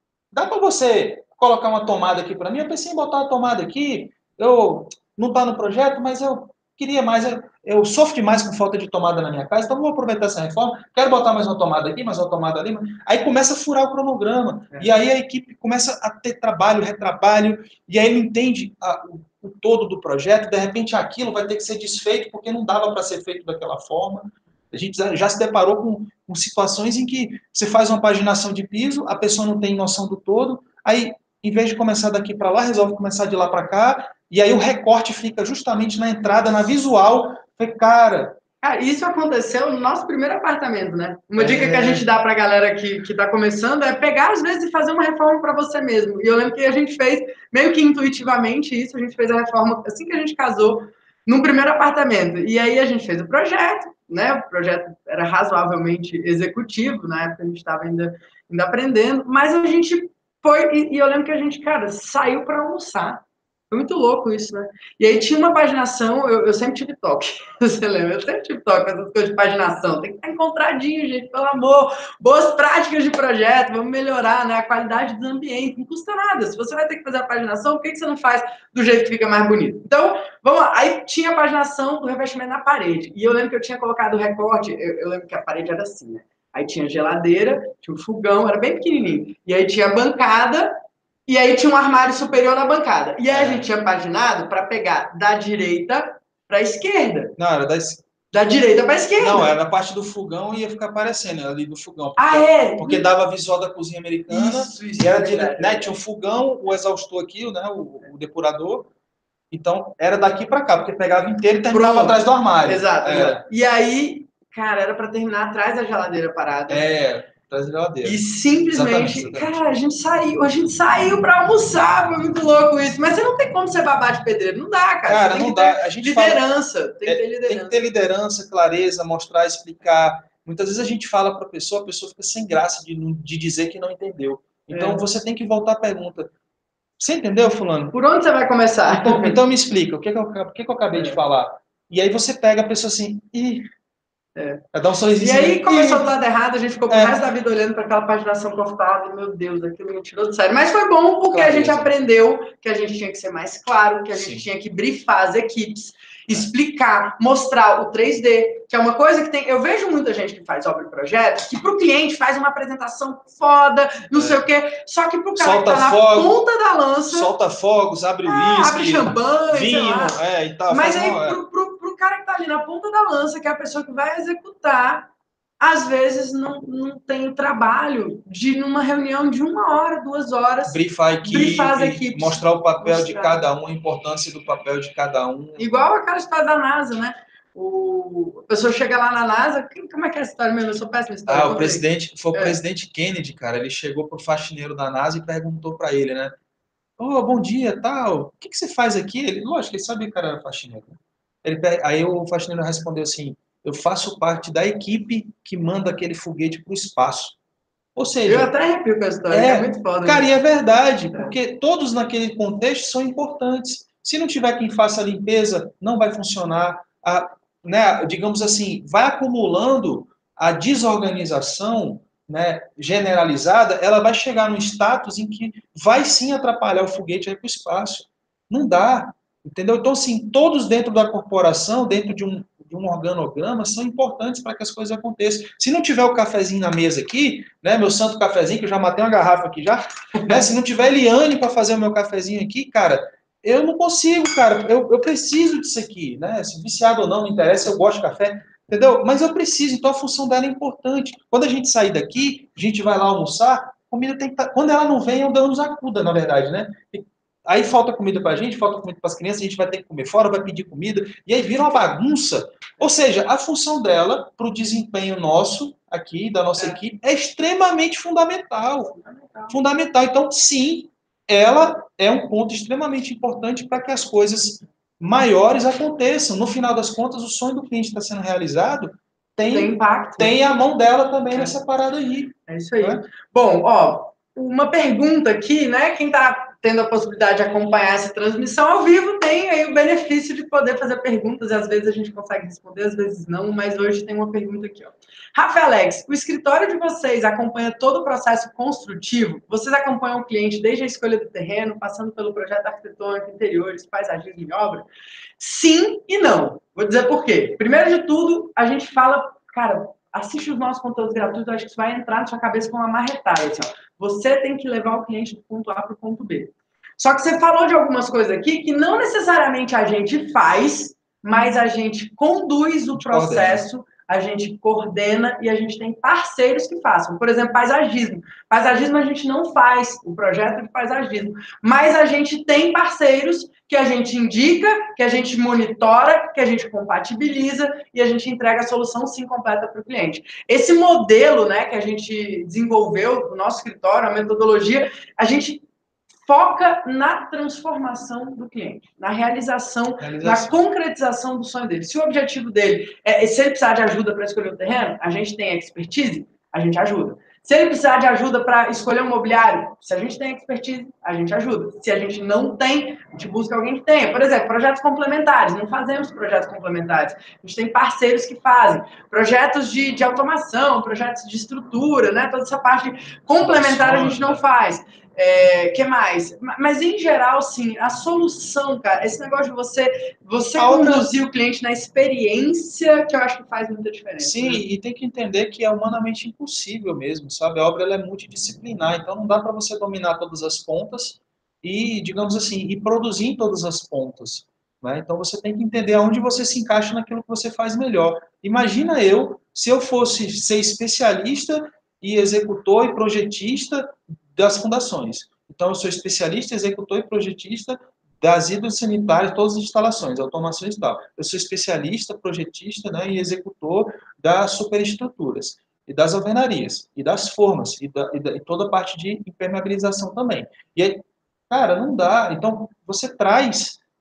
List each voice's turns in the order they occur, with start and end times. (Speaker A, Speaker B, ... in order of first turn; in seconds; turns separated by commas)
Speaker A: 0.3-38.4, Speaker B: 38.6-97.3, Speaker A: 41.4-42.1, Speaker A: 93.3-93.7, Speaker A: 97.4-98.0, Speaker B: 98.3-99.5, Speaker A: 99.2-108.9, Speaker B: 102.2-103.1, Speaker B: 104.3-106.0, Speaker A: 109.5-113.4, Speaker B: 111.7-116.9, Speaker A: 116.7-118.2, Speaker B: 118.0-127.8, Speaker A: 118.7-119.6, Speaker A: 125.0-126.4, Speaker A: 127.1-136.3, Speaker B: 134.7-135.0, Speaker A: 137.0-137.9, Speaker B: 137.9-139.3, Speaker A: 138.9-143.7, Speaker B: 140.9-141.2, Speaker B: 144.3-144.6, Speaker A: 144.7-146.1, Speaker B: 145.2-167.3, Speaker A: 146.9-147.2, Speaker A: 151.3-151.9, Speaker A: 154.2-154.4, Speaker A: 164.1-164.4, Speaker A: 165.4-166.4, Speaker A: 167.1-171.4, Speaker B: 168.2-175.1, Speaker B: 175.6-183.4, Speaker A: 180.7-185.7, Speaker B: 185.6-192.6, Speaker A: 191.3-196.3, Speaker A: 197.0-207.4, Speaker A: 208.0-208.5, Speaker B: 208.2-210.3, Speaker A: 209.3-268.9, Speaker B: 269.0-269.5, Speaker A: 269.5-283.0, Speaker B: 279.5-280.4, Speaker B: 282.5-304.9, Speaker B: 305.4-345.6, Speaker A: 323.0-323.6, Speaker B: 346.2-384.6, Speaker A: 350.0-350.5, Speaker A: 373.4-374.4, Speaker A: 380.6-381.1, Speaker A: 384.2-423.8